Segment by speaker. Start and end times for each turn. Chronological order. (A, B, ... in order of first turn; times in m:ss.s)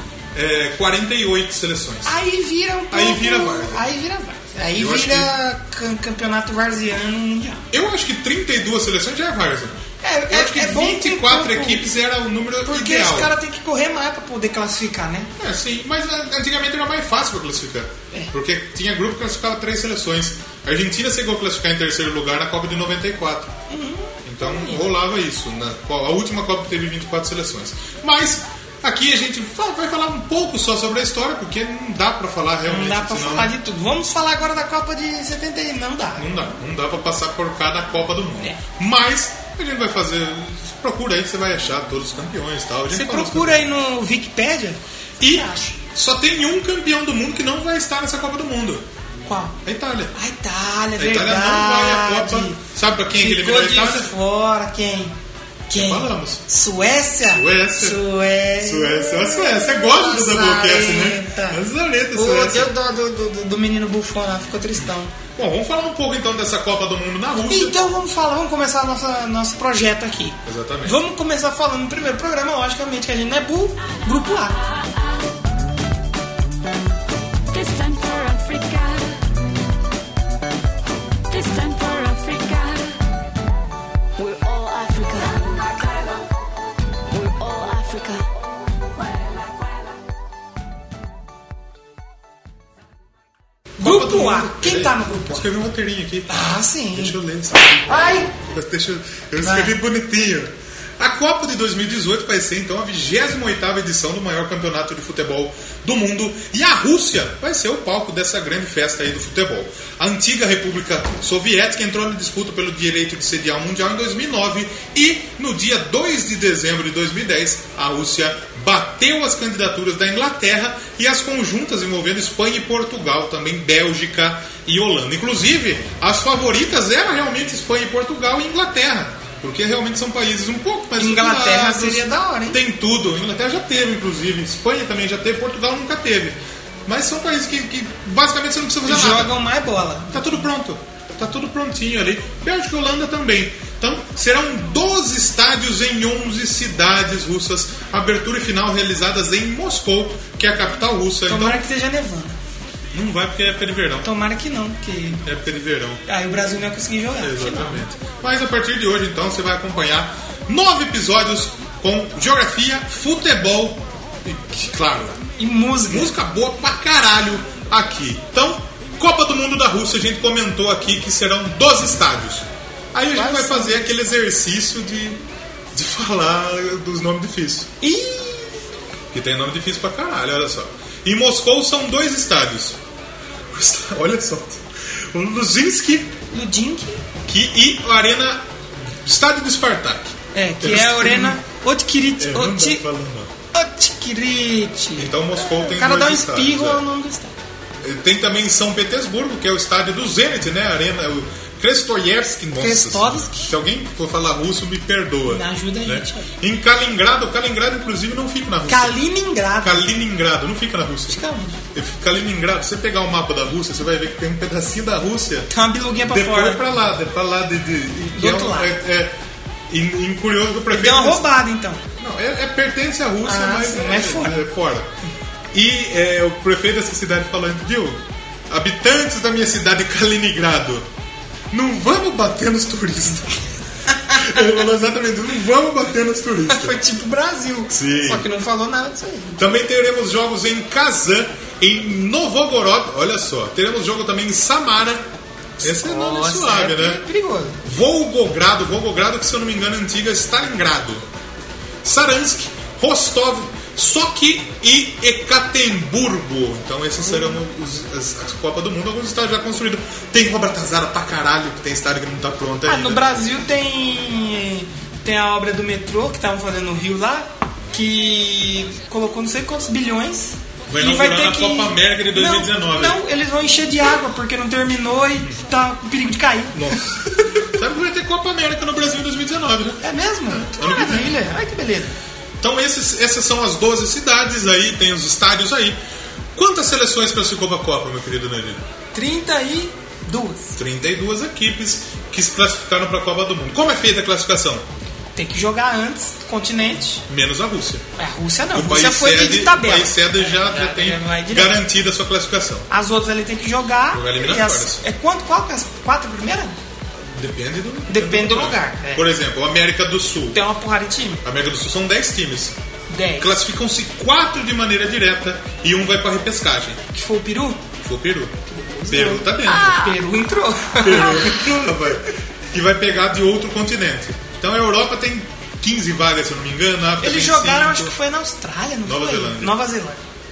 0:00.3-0:02.2 A
0:02.0-0:07.6 B
0:02.9-0:03.9 A
0:04.7-0:05.3 A
0:07.7-0:13.3 A
0:10.0-0:11.8 B
0:12.6-0:15.3 B
0:15.4-0:23.5 A
0:23.7-0:24.9 B
0:24.2-0:33.5 A
0:32.6-0:36.2 B
0:36.2-0:43.7 A
0:42.9-0:45.7 B
0:45.2-0:48.8 A
0:49.2-0:49.6 B
0:49.6-0:50.1 A
0:50.1-0:52.6 B
0:51.0-0:54.1 A
0:53.2-0:55.1 B
0:55.7-1:01.6 B
0:55.7-0:56.4 A
0:57.2-0:58.0 A
0:58.6-1:02.7 A
1:02.1-1:05.1 B
1:04.8-1:07.9 A
1:07.5-1:14.6 B
1:10.4-1:11.0 A
1:17.5-1:19.2 C
1:21.3-1:22.9 C
1:24.2-1:26.0 C
1:27.1-1:28.2 C
1:33.8-1:35.5 B
1:33.8-2:19.4 A
1:36.3-1:37.2 B
1:39.4-1:39.7 B
2:11.0-2:12.6 B
2:18.8-2:20.4 B
2:20.1-2:31.6 A
2:31.3-2:32.4 B
2:32.9-2:34.1 A
2:34.0-2:35.2 B
2:35.2-2:36.0 A
2:36.0-2:37.8 B
2:37.2-2:45.2 A
2:45.4-2:46.1 B
2:45.9-2:55.2 A
2:53.1-2:53.9 B
2:55.7-2:57.7 A
2:57.8-2:58.6 B
2:59.1-3:02.8 A
3:03.5-3:06.1 A
3:06.3-3:07.0 B
3:07.2-3:11.4 A
3:10.3-3:12.8 B
3:12.2-3:13.3 A
3:13.5-3:17.3 B
3:15.0-3:16.8 A
3:17.8-3:29.0 A
3:22.6-3:23.5 B
3:25.3-3:26.3 B
3:28.7-3:29.9 B
3:29.6-3:31.2 A
3:31.1-3:31.6 B
3:31.7-3:35.5 A
3:35.5-3:36.6 B
3:36.1-3:39.1 A
3:38.1-3:38.7 B
3:39.7-3:41.3 A
3:40.7-3:41.8 B
3:42.0-3:44.9 A
3:43.2-3:44.4 B
3:45.5-3:50.9 A
3:51.5-3:53.5 A
3:53.9-3:54.4 B
3:54.1-3:56.8 A
3:56.5-3:59.4 B
3:57.7-3:58.2 A
3:59.4-4:05.1 A
4:05.6-4:07.6 B
4:05.6-4:07.0 A
4:07.6-4:11.0 A
4:11.8-4:23.1 A
4:17.0-4:17.4 B
4:22.6-4:37.5 B
4:30.7-4:33.0 A
4:36.5-4:41.2 A
4:39.8-4:42.0 B
4:42.4-4:45.8 A
4:46.3-4:48.6 A
4:48.9-4:50.5 B
4:50.6-4:54.6 A
4:55.2-4:57.0 B
4:57.1-4:57.8 A
4:58.0-5:01.6 B
4:58.5-5:02.7 A
5:02.7-5:06.5 B
5:03.9-5:04.8 A
5:07.0-5:10.4 A
5:07.9-5:09.1 B
5:10.3-5:11.2 B
5:11.2-5:12.6 A
5:12.9-5:13.3 B
5:13.2-5:16.8 A
5:16.9-5:17.6 B
5:17.8-5:19.9 A
5:18.5-5:22.0 B
5:20.8-5:27.9 A
5:27.0-5:30.0 B
5:28.8-5:29.6 A